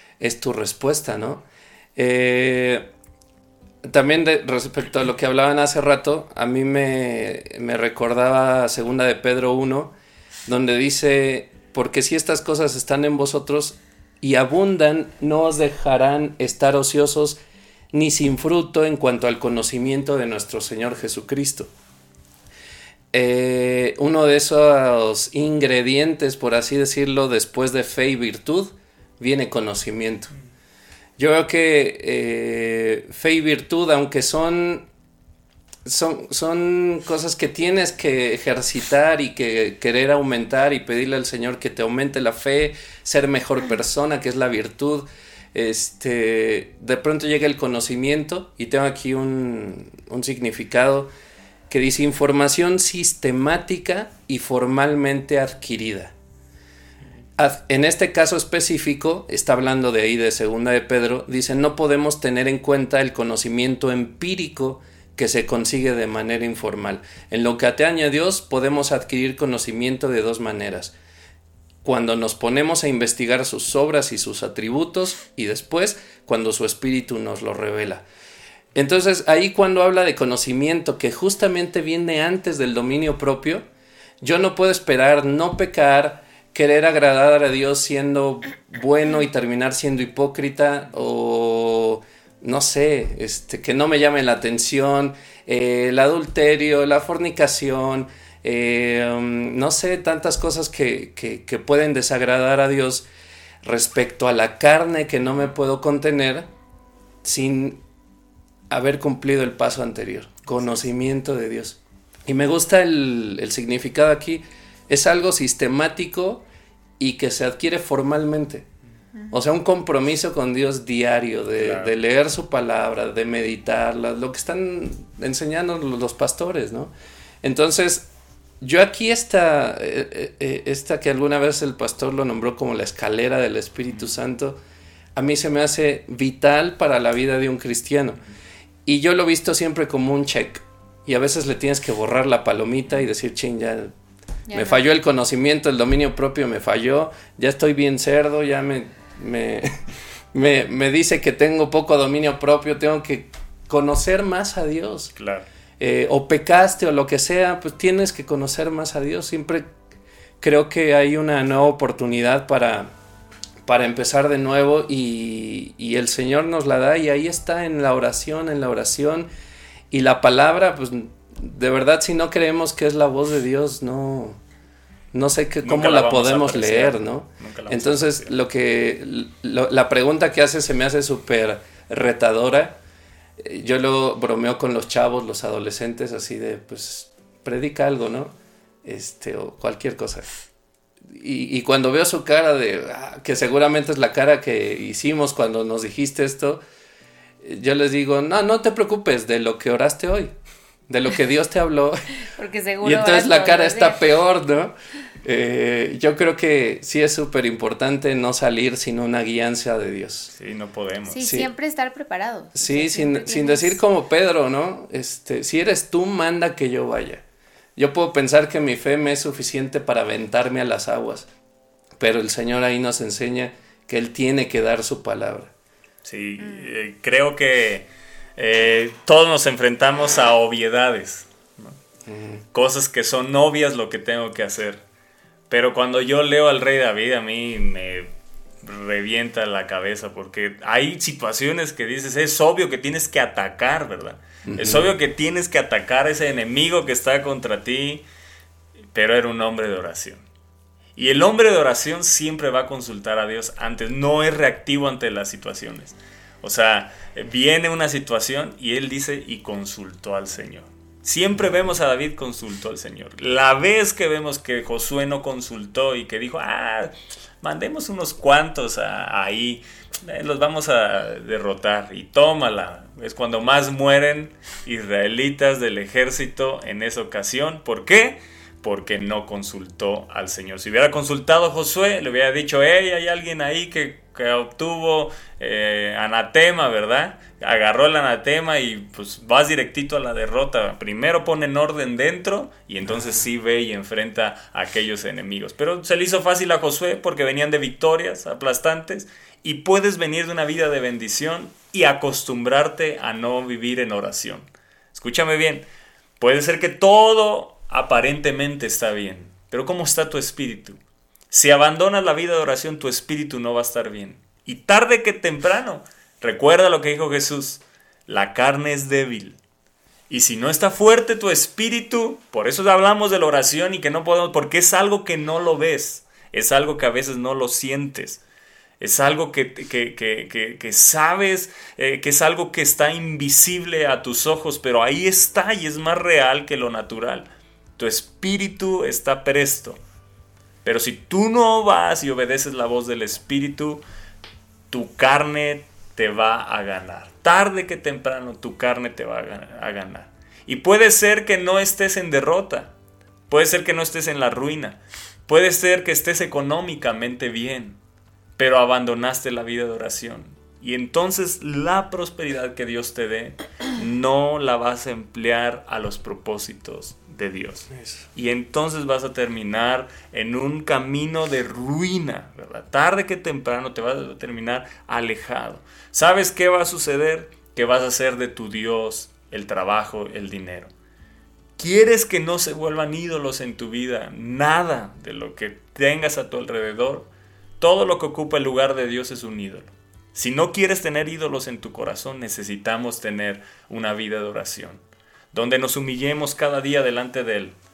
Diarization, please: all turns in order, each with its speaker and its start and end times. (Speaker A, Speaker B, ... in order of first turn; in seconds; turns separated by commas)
Speaker A: 0.2-2.9, Speaker A: 3.8-9.9, Speaker A: 10.5-17.4, Speaker A: 17.9-21.7, Speaker A: 23.1-30.3, Speaker A: 31.2-34.9, Speaker A: 35.9-51.1, Speaker A: 51.7-56.1, Speaker A: 57.4-70.9, Speaker A: 71.8-78.0, Speaker A: 78.7-83.7, Speaker A: 84.2-103.1, Speaker A: 103.6-106.5, Speaker A: 107.2-107.8, Speaker A: 108.7-116.4, Speaker A: 117.0-118.7, Speaker A: 119.3-126.9, Speaker B: 121.6-121.9, Speaker A: 127.4-128.1, Speaker A: 128.6-134.6, Speaker A: 135.2-138.2, Speaker A: 138.9-143.9, Speaker C: 144.5-144.8, Speaker A: 144.5-149.8, Speaker A: 150.3-155.1, Speaker B: 155.2-155.4, Speaker A: 155.8-159.7, Speaker A: 160.4-162.9, Speaker A: 163.7-169.3, Speaker A: 169.9-174.4, Speaker A: 175.1-182.8, Speaker B: 175.6-178.3, Speaker A: 183.4-190.3, Speaker A: 191.1-196.6, Speaker A: 197.4-200.3, Speaker A: 200.9-202.1, Speaker C: 202.3-204.0, Speaker A: 202.8-210.3, Speaker B: 210.3-211.2, Speaker C: 211.1-213.8, Speaker A: 211.2-211.5, Speaker A: 212.6-217.2, Speaker A: 217.8-221.3, Speaker A: 222.0-225.5, Speaker B: 226.1-231.8, Speaker A: 232.1-232.4, Speaker B: 232.5-234.8, Speaker B: 235.5-238.1, Speaker B: 238.6-248.0, Speaker A: 244.5-244.9, Speaker B: 248.9-250.2, Speaker B: 250.9-305.6, Speaker B: 306.2-310.8, Speaker B: 311.3-319.4, Speaker B: 320.1-328.2, Speaker B: 328.8-339.8, Speaker B: 340.6-343.8, Speaker B: 344.7-352.7, Speaker B: 353.3-357.8, Speaker B: 358.4-380.7, Speaker B: 381.6-387.1, Speaker B: 387.6-394.8, Speaker B: 395.3-397.6